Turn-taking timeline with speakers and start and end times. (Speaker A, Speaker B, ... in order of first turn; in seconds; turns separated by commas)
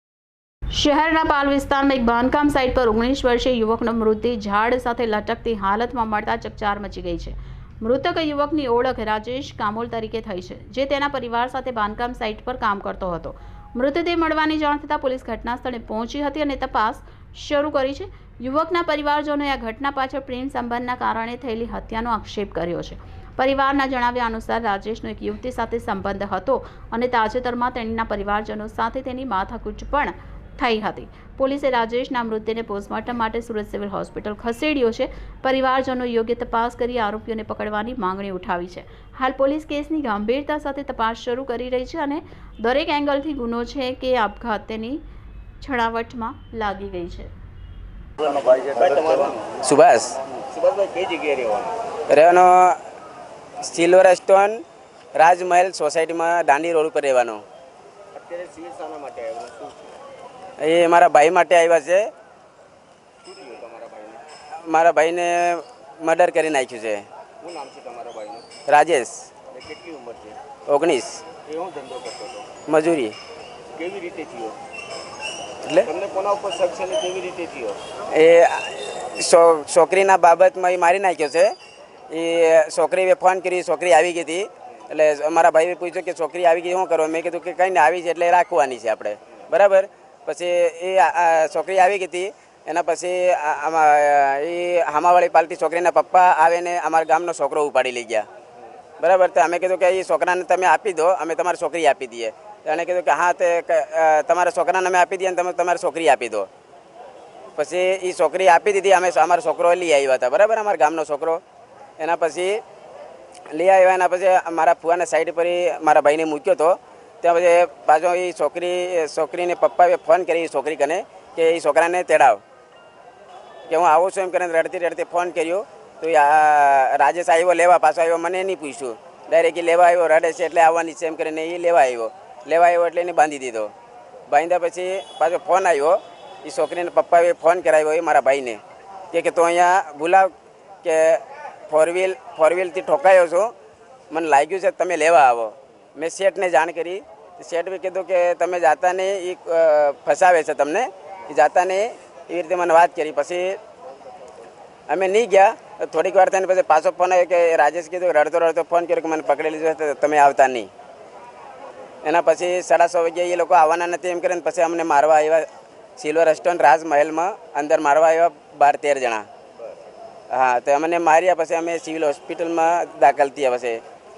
Speaker A: 0.7-45.0, Speaker A: 45.6-47.3, Speaker B: 48.3-49.6, Speaker C: 49.6-50.2, Speaker B: 50.5-51.8, Speaker C: 52.1-52.8, Speaker C: 53.6-54.6, Speaker C: 55.1-57.4, Speaker B: 58.1-60.0, Speaker C: 60.6-62.1, Speaker B: 63.2-64.2, Speaker C: 64.6-67.0, Speaker B: 67.4-68.5, Speaker C: 68.7-69.3, Speaker B: 69.5-70.4, Speaker C: 70.7-71.2, Speaker B: 71.5-72.5, Speaker C: 72.7-73.2, Speaker B: 73.8-74.6, Speaker C: 75.6-75.9, Speaker B: 75.8-77.8, Speaker C: 78.1-81.5, Speaker C: 82.1-98.3, Speaker C: 99.0-106.5, Speaker C: 107.6-111.4, Speaker C: 112.0-112.6, Speaker C: 113.5-122.4, Speaker C: 123.7-133.7, Speaker C: 134.3-138.6, Speaker C: 139.1-140.3, Speaker C: 140.8-143.5, Speaker C: 144.1-153.6, Speaker C: 154.9-160.7, Speaker C: 162.0-169.3, Speaker C: 170.3-173.8